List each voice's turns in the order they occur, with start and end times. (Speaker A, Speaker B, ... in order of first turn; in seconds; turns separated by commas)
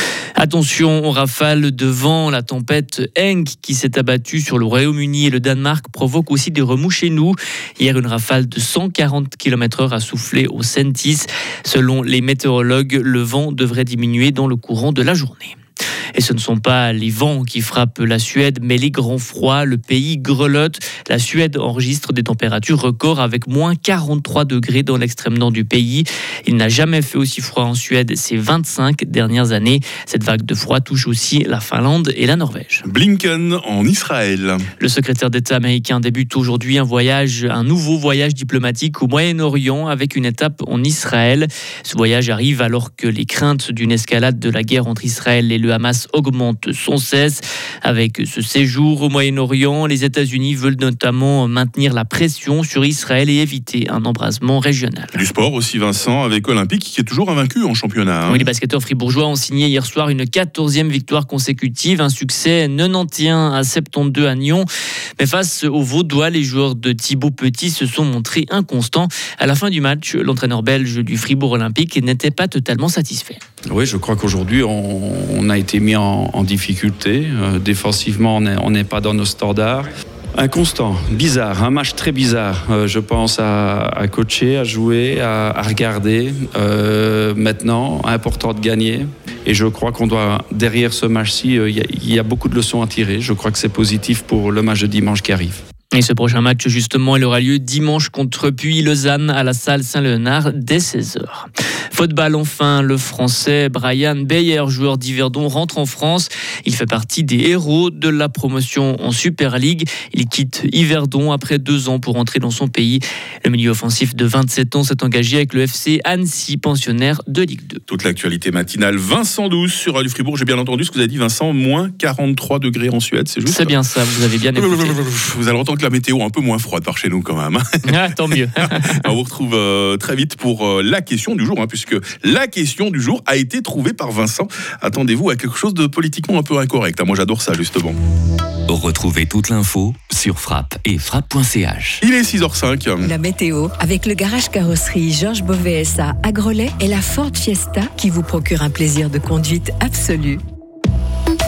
Speaker A: 0.4-15.6, Speaker A: 16.1-32.8, Speaker B: 32.9-34.6, Speaker A: 34.8-55.2, Speaker B: 55.1-58.5, Speaker A: 58.3-73.4, Speaker C: 73.7-95.6, Speaker A: 95.9-117.8, Speaker B: 117.9-123.8, Speaker A: 123.5-125.0, Speaker B: 124.5-138.0, Speaker A: 127.8-129.0, Speaker D: 138.7-142.0, Speaker B: 142.0-143.1, Speaker E: 143.0-150.4